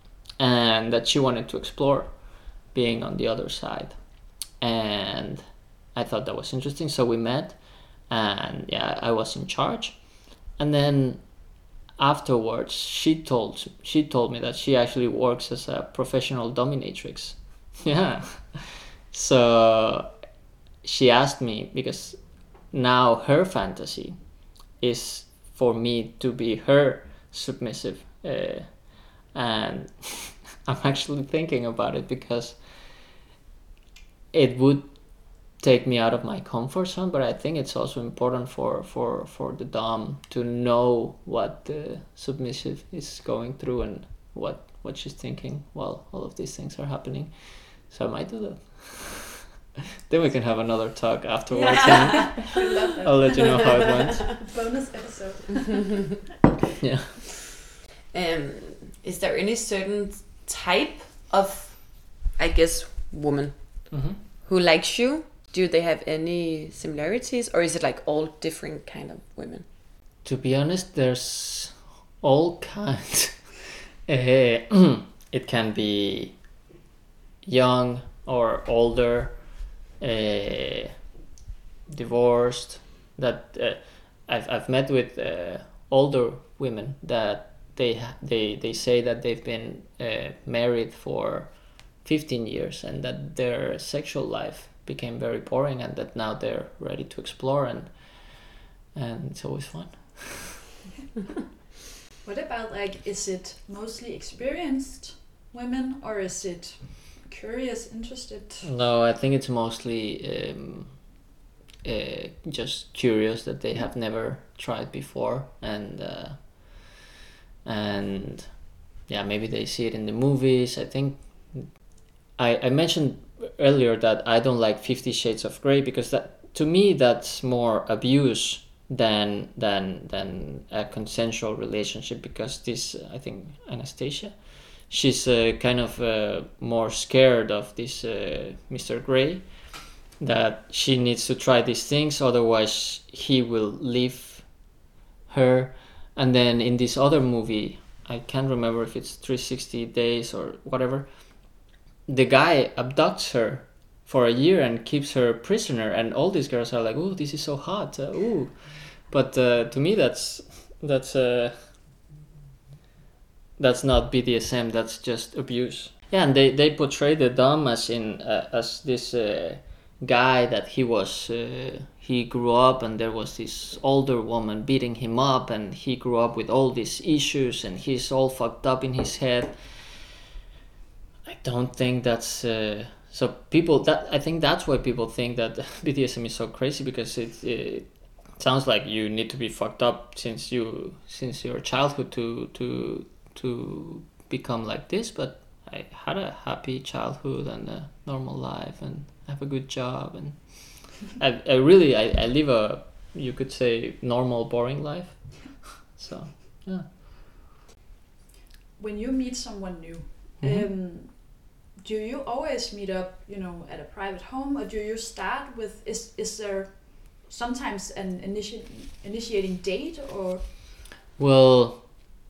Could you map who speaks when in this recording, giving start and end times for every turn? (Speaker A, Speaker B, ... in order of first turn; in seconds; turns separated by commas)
Speaker A: 0.4-20.1, Speaker A: 20.8-33.0, Speaker A: 34.3-49.5, Speaker A: 50.1-54.4, Speaker B: 51.5-56.1, Speaker A: 56.8-57.2, Speaker C: 58.1-69.7, Speaker A: 63.9-64.2, Speaker A: 70.2-76.4, Speaker A: 77.4-80.9, Speaker A: 81.9-100.7, Speaker B: 102.2-108.7, Speaker A: 108.6-111.1, Speaker A: 111.8-116.9, Speaker A: 117.6-144.7, Speaker A: 145.3-161.7, Speaker A: 163.6-180.2, Speaker A: 181.2-206.9, Speaker B: 208.8-220.5, Speaker A: 210.4-210.7, Speaker A: 221.2-221.9